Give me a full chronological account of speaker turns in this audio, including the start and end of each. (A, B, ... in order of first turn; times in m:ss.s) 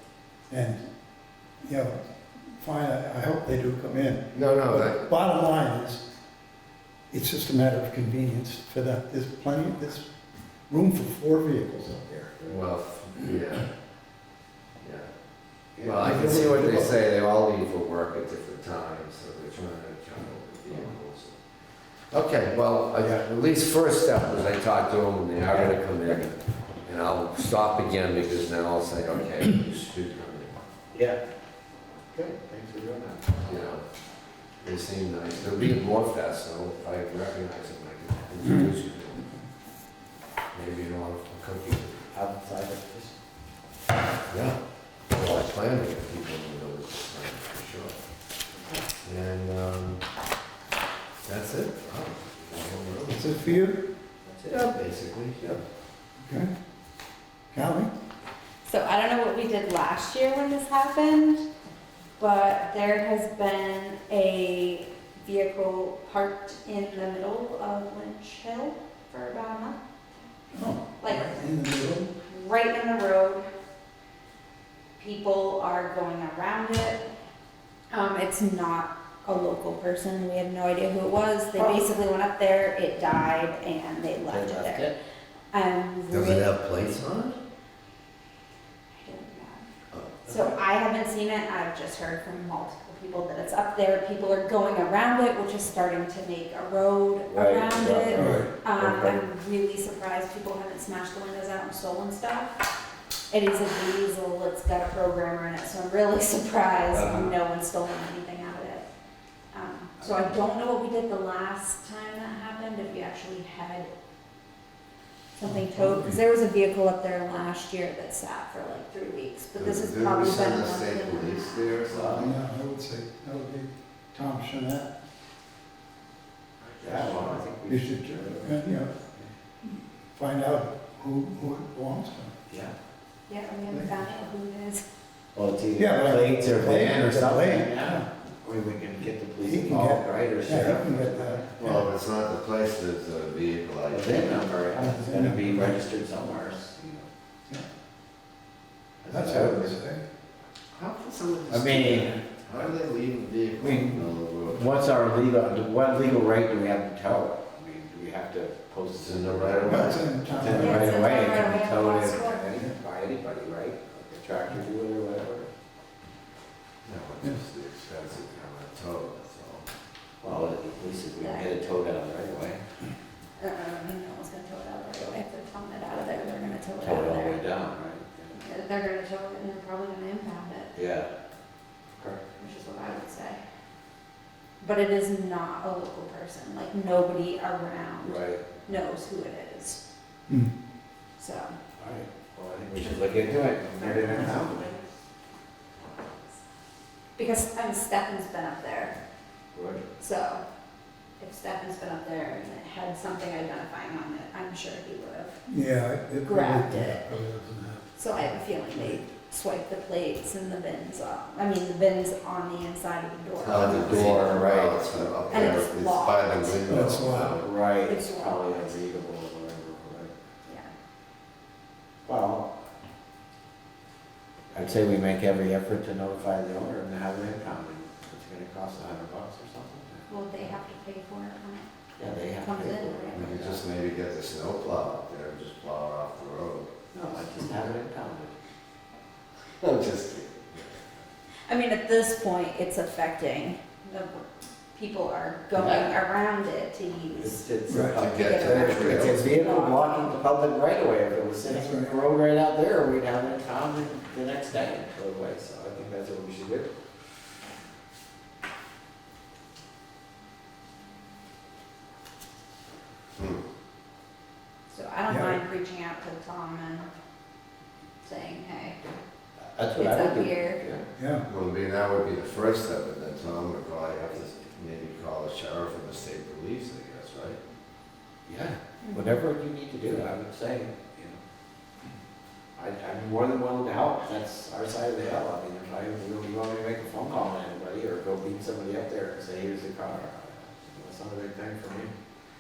0:00.5-0:00.8 A
0:01.6-0:02.0 A
0:02.6-0:06.0 A
0:04.3-0:05.0 B
0:07.1-0:10.1 A
0:10.7-0:12.4 A
0:12.5-0:13.7 B
0:14.8-0:15.1 B
0:15.8-0:17.0 C
0:15.8-0:21.4 B
0:16.0-0:16.6 A
0:22.1-0:30.6 B
0:30.9-0:31.2 C
0:32.1-0:33.4 C
0:33.4-0:33.8 B
0:34.6-0:39.3 B
0:40.5-0:42.1 B
0:42.1-0:43.2 C
0:44.3-0:44.6 B
0:45.1-0:48.0 B
0:48.5-0:48.9 C
0:49.0-0:50.0 B
0:51.2-0:53.4 B
0:53.1-0:53.9 A
0:54.2-0:54.6 C
0:54.5-0:55.6 B
0:56.2-0:56.5 A
0:57.5-0:57.9 A
0:58.7-1:01.5 D
1:02.2-1:09.8 D
1:10.5-1:12.1 A
1:11.0-1:11.4 D
1:12.3-1:13.4 D
1:15.0-1:17.0 D
1:17.9-1:24.9 D
1:24.3-1:25.0 C
1:25.5-1:26.5 D
1:26.1-1:27.4 B
1:29.0-1:29.6 D
1:29.9-1:30.2 B
1:30.3-1:42.6 D
1:37.3-1:39.2 C
1:38.2-1:38.5 A
1:43.3-1:48.9 D
1:46.9-1:47.4 C
1:49.5-1:53.9 D
1:50.0-1:50.4 C
1:55.4-2:01.8 D
1:55.4-1:56.2 A
1:59.6-2:02.4 B
2:01.9-2:02.3 C
2:02.2-2:04.9 A
2:06.6-2:07.5 B
2:06.8-2:09.3 C
2:07.7-2:08.9 A
2:10.2-2:12.3 A
2:12.5-2:12.7 C
2:13.3-2:14.8 D
2:13.7-2:14.1 A
2:15.4-2:21.6 C
2:15.8-2:18.1 A
2:19.5-2:21.9 A
2:21.6-2:24.4 B
2:23.9-2:27.1 C
2:24.8-2:25.8 A
2:29.0-2:29.8 C
2:29.1-2:30.0 A
2:30.7-2:34.9 B
2:31.5-2:32.2 C
2:33.6-2:45.5 C
2:39.0-2:40.1 B
2:39.7-2:41.0 A
2:40.6-2:42.5 D
2:46.8-2:49.7 B
2:50.2-2:52.6 C
2:51.2-2:51.5 D
2:53.4-2:57.4 D
2:56.8-2:58.4 C
2:58.4-3:00.7 D
3:00.7-3:01.1 C
3:02.0-3:02.2 C
3:02.4-3:03.4 D
3:04.6-3:09.8 D
3:08.0-3:08.5 C
3:11.2-3:11.5 D
3:11.8-3:14.8 C
3:12.8-3:14.8 D
3:17.2-3:19.0 D
3:19.5-3:19.9 C
3:20.0-3:20.4 D
3:21.2-3:25.4 D
3:25.5-3:29.0 A
3:26.2-3:27.1 D
3:28.0-3:34.4 D
3:33.4-3:37.5 B
3:33.5-3:35.6 C
3:35.3-3:37.0 D
3:36.7-3:37.4 A
3:37.4-3:40.1 C
3:37.8-3:38.8 D
3:42.1-3:42.5 C
3:44.5-3:50.1 C
3:50.1-3:51.7 D
3:52.0-3:53.6 C
3:52.4-3:53.5 D
3:53.1-3:56.7 B
3:56.9-3:58.3 C
3:59.6-4:01.0 B
4:01.5-4:10.1 D
4:05.6-4:06.0 C
4:07.2-4:16.7 C
4:07.7-4:08.0 A
4:08.0-4:09.3 B
4:11.5-4:11.9 A
4:23.2-4:23.4 B
4:24.7-4:26.9 D
4:25.1-4:25.4 A
4:28.0-4:28.8 D
4:29.4-4:30.9 C
4:29.8-4:30.6 D
4:31.0-4:31.2 A
4:31.3-4:37.4 B
4:38.3-4:41.2 C
4:38.8-4:39.2 D
4:42.6-4:51.9 C